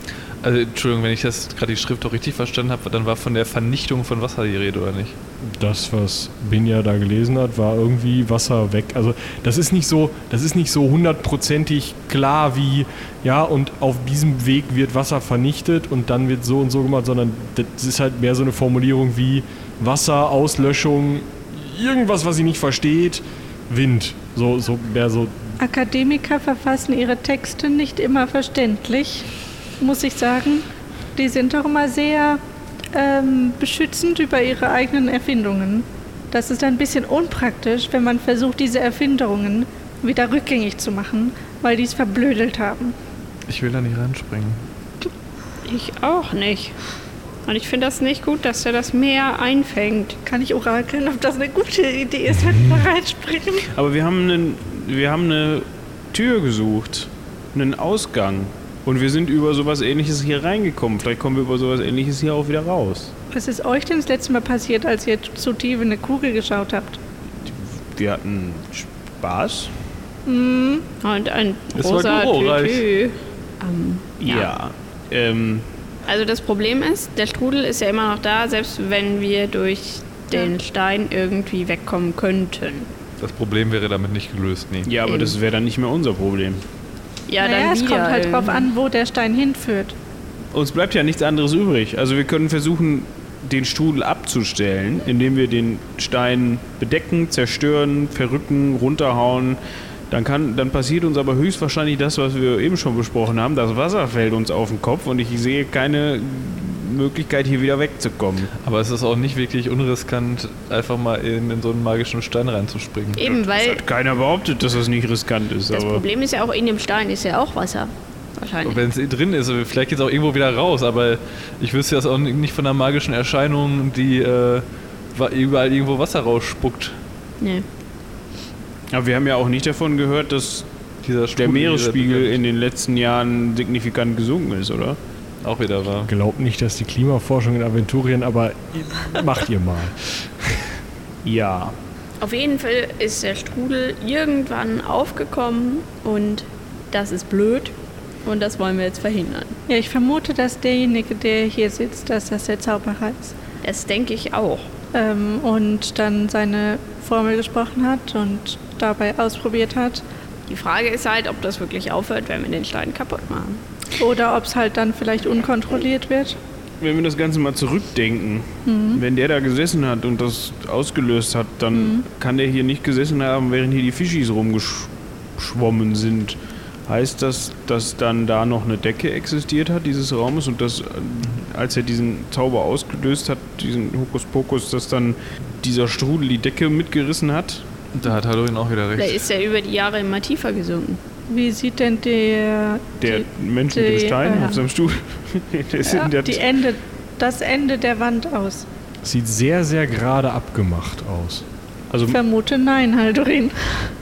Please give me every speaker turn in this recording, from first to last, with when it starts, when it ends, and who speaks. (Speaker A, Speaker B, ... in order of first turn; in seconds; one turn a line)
Speaker A: 0.4-5.2
Speaker B: 5.4-25.6
Speaker C: 25.6-32.4
Speaker C: 32.9-42.9
Speaker A: 43.5-44.6
Speaker D: 45.6-46.8
Speaker D: 47.5-50.2
Speaker C: 50.2-53.7
Speaker E: 53.7-63.1
Speaker C: 63.3-67.0
Speaker E: 67.3-69.7
Speaker C: 70.2-70.8
Speaker D: 71.0-74.5
Speaker A: 71.7-72.8
Speaker E: 74.2-75.7
Speaker D: 76.0-82.9
Speaker A: 83.2-84.9
Speaker E: 84.8-86.6
Speaker D: 85.0-85.4
Speaker D: 87.3-88.7
Speaker C: 87.4-90.0
Speaker E: 90.5-99.6
Speaker E: 100.1-108.5
Speaker A: 108.6-113.2
Speaker D: 113.2-113.8
Speaker E: 113.2-116.0
Speaker D: 115.7-118.8
Speaker A: 118.6-127.0
Speaker D: 127.4-127.7
Speaker E: 128.9-130.7
Speaker A: 131.0-132.4
Speaker E: 131.3-135.0
Speaker A: 135.4-136.1
Speaker B: 136.1-140.7
Speaker E: 141.2-141.8
Speaker D: 142.2-149.6
Speaker C: 149.7-153.3
Speaker D: 153.6-154.7
Speaker C: 154.9-160.0
Speaker D: 160.5-163.6
Speaker C: 164.0-166.4
Speaker E: 166.8-187.6
Speaker C: 168.7-169.0
Speaker C: 171.7-172.0
Speaker A: 187.9-189.2
Speaker D: 189.0-191.0
Speaker C: 191.3-194.6
Speaker E: 193.0-196.4
Speaker C: 195.8-198.7
Speaker B: 199.0-201.4
Speaker E: 201.9-202.2
Speaker C: 202.0-203.9